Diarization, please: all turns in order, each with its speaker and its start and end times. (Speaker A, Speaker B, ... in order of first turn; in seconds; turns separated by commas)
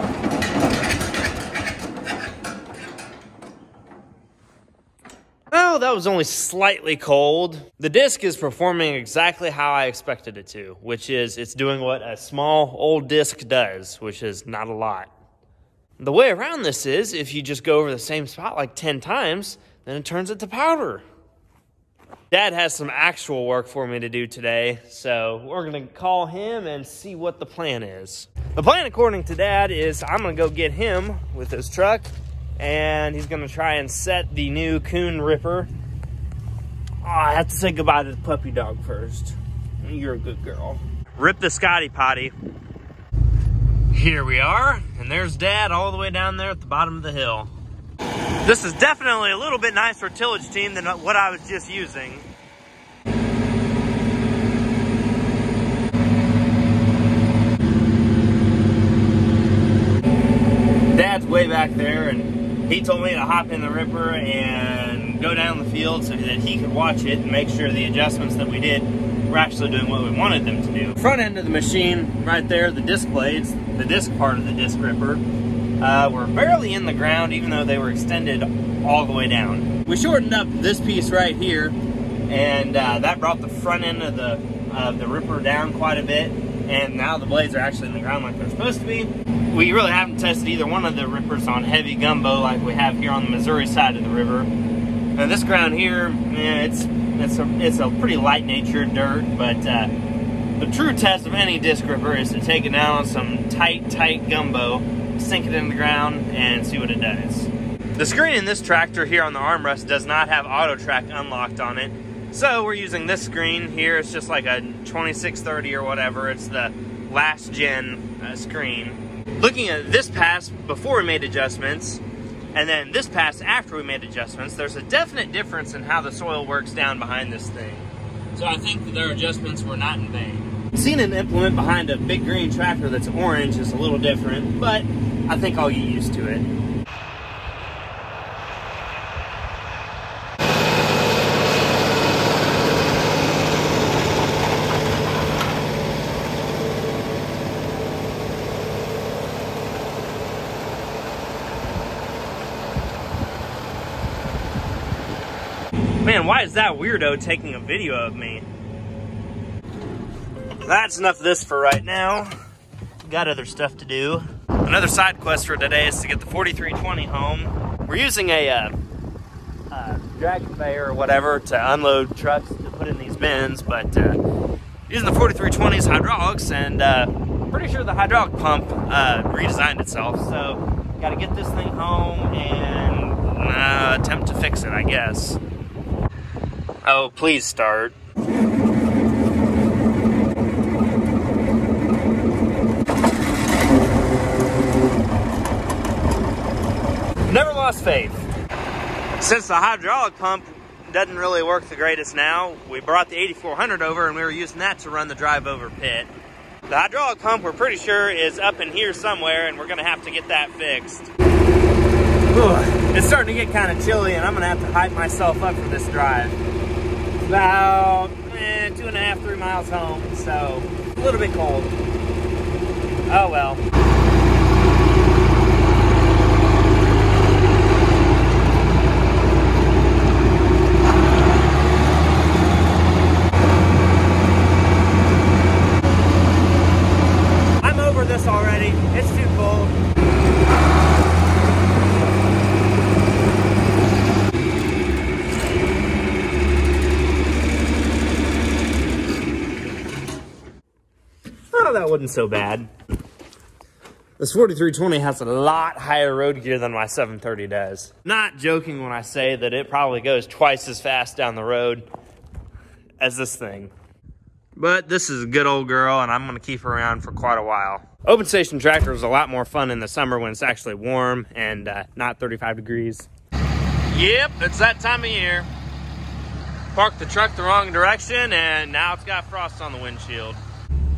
Speaker A: 5.5-15.1, Speaker A: 16.0-21.0, Speaker A: 22.3-35.7, Speaker A: 37.0-42.3, Speaker A: 43.9-47.5, Speaker A: 48.4-52.3, Speaker A: 60.9-75.2, Speaker A: 75.8-81.8, Speaker A: 82.3-94.5, Speaker A: 95.2-99.9, Speaker A: 100.6-122.0, Speaker A: 122.5-136.5, Speaker A: 156.0-158.5, Speaker A: 160.7-162.3, Speaker A: 163.0-168.7, Speaker A: 169.7-174.2, Speaker A: 174.9-185.4, Speaker A: 186.8-187.9, Speaker A: 197.3-198.2, Speaker A: 199.2-206.1, Speaker A: 206.7-211.1, Speaker A: 212.3-216.4, Speaker A: 217.2-221.7, Speaker A: 223.1-223.6, Speaker A: 237.6-239.8, Speaker A: 251.5-252.7, Speaker A: 254.2-261.9, Speaker A: 263.0-263.7, Speaker A: 264.6-273.1, Speaker A: 273.9-275.5, Speaker A: 276.7-280.4